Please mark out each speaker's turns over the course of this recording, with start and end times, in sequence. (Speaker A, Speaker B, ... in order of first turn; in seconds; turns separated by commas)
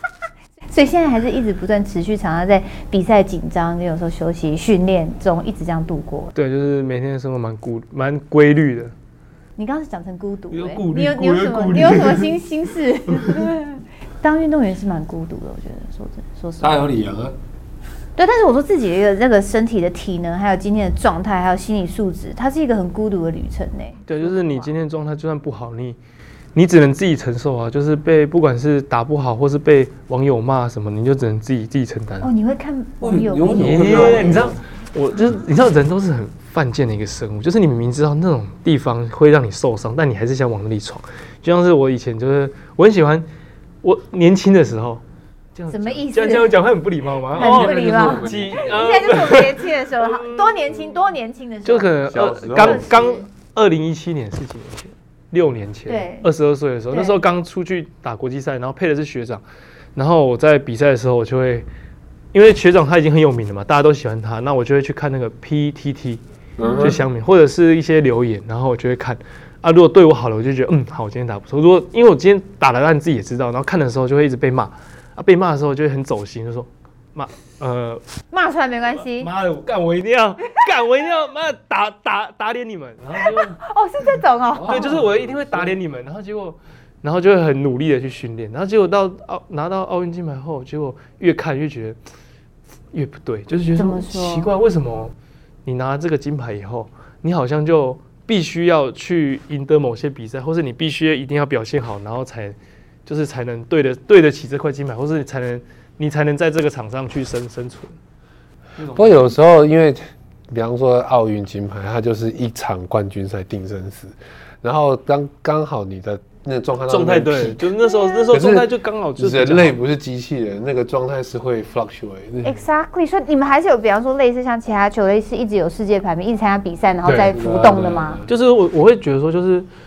Speaker A: 0.7-6.3, Speaker B: 6.3-8.9, Speaker A: 9.6-16.9, Speaker B: 10.5-12.3, Speaker C: 16.6-17.3, Speaker A: 18.2-24.6, Speaker B: 24.1-26.0, Speaker B: 26.5-32.3, Speaker A: 32.2-34.4, Speaker C: 33.0-34.6, Speaker B: 33.6-43.3, Speaker B: 43.8-45.0, Speaker B: 45.5-50.6, Speaker A: 45.7-46.6, Speaker C: 47.4-49.1, Speaker A: 47.4-53.2, Speaker B: 51.6-59.4, Speaker C: 52.1-52.9, Speaker A: 55.9-56.3, Speaker A: 56.9-57.1, Speaker B: 60.0-61.7, Speaker B: 62.3-66.2, Speaker C: 66.6-67.0, Speaker A: 66.6-66.9, Speaker B: 66.8-78.0, Speaker A: 78.3-79.3, Speaker B: 79.0-83.6, Speaker A: 83.2-84.9, Speaker C: 84.6-85.0, Speaker B: 84.6-92.0, Speaker B: 92.9-95.1, Speaker A: 93.7-94.5, Speaker B: 95.7-108.0, Speaker B: 108.8-109.3, Speaker C: 108.9-117.7, Speaker B: 116.9-119.8, Speaker A: 117.8-118.3, Speaker C: 118.3-122.6, Speaker A: 122.4-128.2, Speaker B: 127.0-127.4, Speaker C: 127.3-128.3, Speaker B: 128.3-129.7